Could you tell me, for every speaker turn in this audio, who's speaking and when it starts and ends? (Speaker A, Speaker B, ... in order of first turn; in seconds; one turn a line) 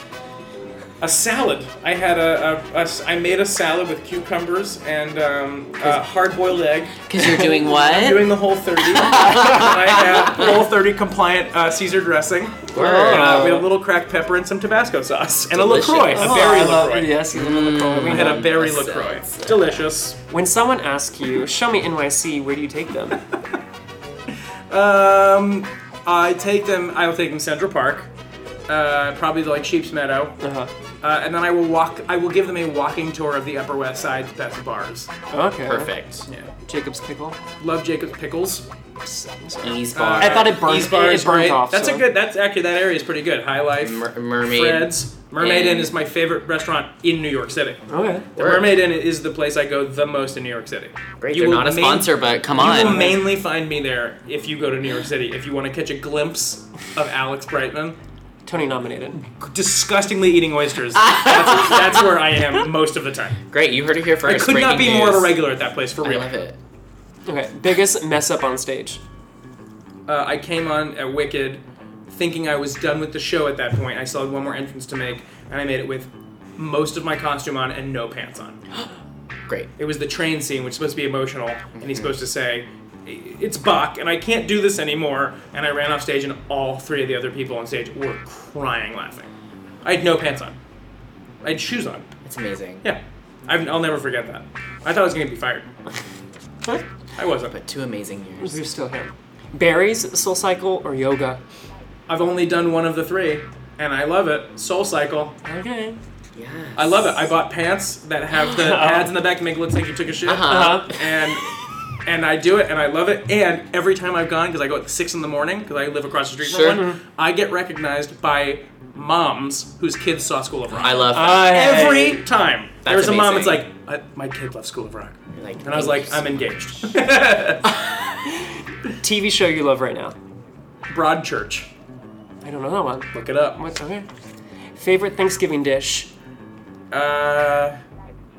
Speaker A: 1.0-7.1
Speaker B: 7.1-8.4
Speaker A: 7.6-17.2
Speaker B: 8.9-10.5
Speaker C: 12.7-13.7
Speaker B: 12.8-13.4
Speaker B: 15.5-16.4
Speaker C: 16.1-18.5
Speaker B: 17.3-19.8
Speaker A: 17.9-20.2
Speaker C: 20.3-23.2
Speaker A: 24.7-28.1
Speaker A: 28.7-30.4
Speaker C: 30.4-30.7
Speaker A: 31.0-35.1
Speaker C: 35.3-35.9
Speaker B: 35.7-36.3
Speaker C: 36.7-37.4
Speaker A: 37.6-38.7
Speaker C: 39.0-42.1
Speaker B: 39.6-40.6
Speaker A: 39.9-47.8
Speaker B: 43.8-45.9
Speaker C: 47.9-48.3
Speaker A: 48.4-58.0
Speaker B: 48.4-48.8
Speaker B: 51.2-53.1
Speaker C: 52.6-53.2
Speaker C: 58.5-59.2
Speaker A: 59.4-63.4
Speaker B: 61.0-62.1
Speaker B: 63.5-65.4
Speaker A: 64.2-66.3
Speaker B: 66.0-66.6
Speaker C: 67.3-69.0
Speaker A: 70.1-78.6
Speaker A: 79.8-89.3
Speaker B: 81.8-82.2
Speaker A: 89.8-90.6
Speaker A: 91.4-92.1
Speaker B: 92.2-92.9
Speaker A: 92.8-95.7
Speaker A: 97.2-97.5
Speaker B: 97.5-98.6
Speaker C: 98.4-101.4
Speaker A: 102.1-105.3
Speaker C: 105.4-106.0
Speaker B: 106.4-107.1
Speaker A: 106.8-111.5
Speaker C: 108.5-109.1
Speaker B: 110.3-111.1
Speaker C: 110.5-110.9
Speaker A: 112.1-127.6
Speaker B: 116.4-116.8
Speaker C: 116.7-117.0
Speaker B: 120.8-121.6
Speaker C: 121.1-122.2
Speaker B: 122.8-123.6
Speaker B: 125.3-126.8
Speaker C: 129.0-130.2
Speaker A: 130.9-131.7
Speaker C: 132.4-134.1
Speaker A: 133.1-133.6
Speaker C: 134.8-136.1
Speaker A: 136.9-137.8